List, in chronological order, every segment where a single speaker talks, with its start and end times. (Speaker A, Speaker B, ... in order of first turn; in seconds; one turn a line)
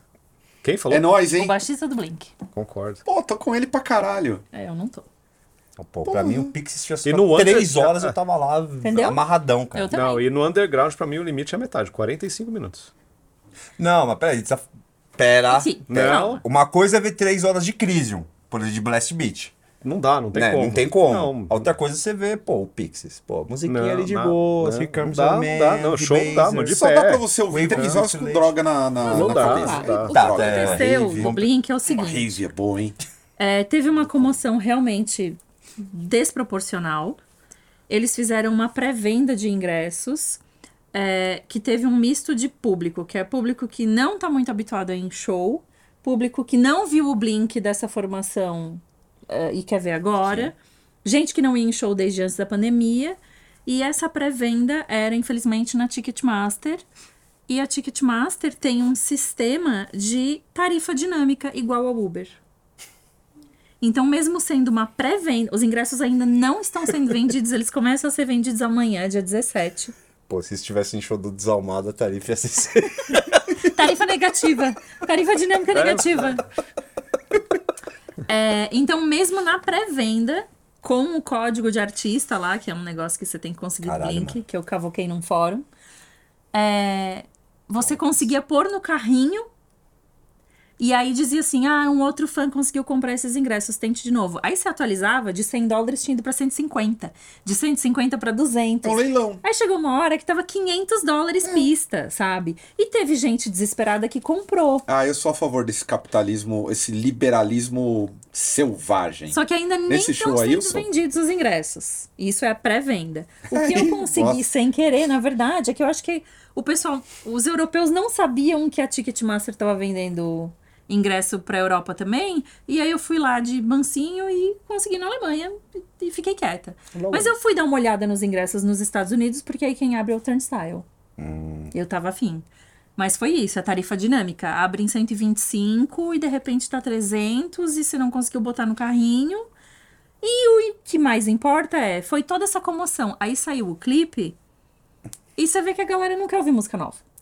Speaker A: 0.6-1.1
Speaker B: 0.9-1.5
Speaker C: 1.3-2.3
Speaker A: 2.5-3.0
Speaker B: 3.0-4.4
Speaker C: 4.5-5.0
Speaker D: 5.8-9.9
Speaker B: 6.0-6.5
Speaker A: 7.0-8.2
Speaker C: 8.8-9.2
Speaker C: 9.7-10.2
Speaker A: 9.9-12.9
Speaker D: 13.8-14.6
Speaker D: 15.2-19.5
Speaker C: 15.5-16.4
Speaker A: 15.9-16.4
Speaker A: 19.8-21.6
Speaker D: 20.3-26.8
Speaker A: 23.6-28.0
Speaker B: 26.7-31.3
Speaker D: 27.5-28.6
Speaker C: 29.1-32.3
Speaker A: 29.1-30.1
Speaker D: 30.1-31.5
Speaker B: 31.9-33.0
Speaker C: 33.4-37.2
Speaker C: 37.9-40.4
Speaker C: 40.9-56.8
Speaker D: 50.2-50.5
Speaker C: 57.5-62.4
Speaker C: 63.8-69.9
Speaker D: 70.3-73.7
Speaker C: 73.6-76.4
Speaker C: 78.3-85.6
Speaker D: 83.8-84.4
Speaker C: 86.5-89.5
Speaker D: 87.8-88.2
Speaker C: 90.8-104.8
Speaker B: 98.8-99.4
Speaker B: 104.9-110.9
Speaker C: 109.3-130.8
Speaker B: 113.5-114.4
Speaker D: 127.0-127.3
Speaker D: 131.2-131.7
Speaker C: 131.7-139.5
Speaker C: 140.2-144.4
Speaker C: 145.3-147.0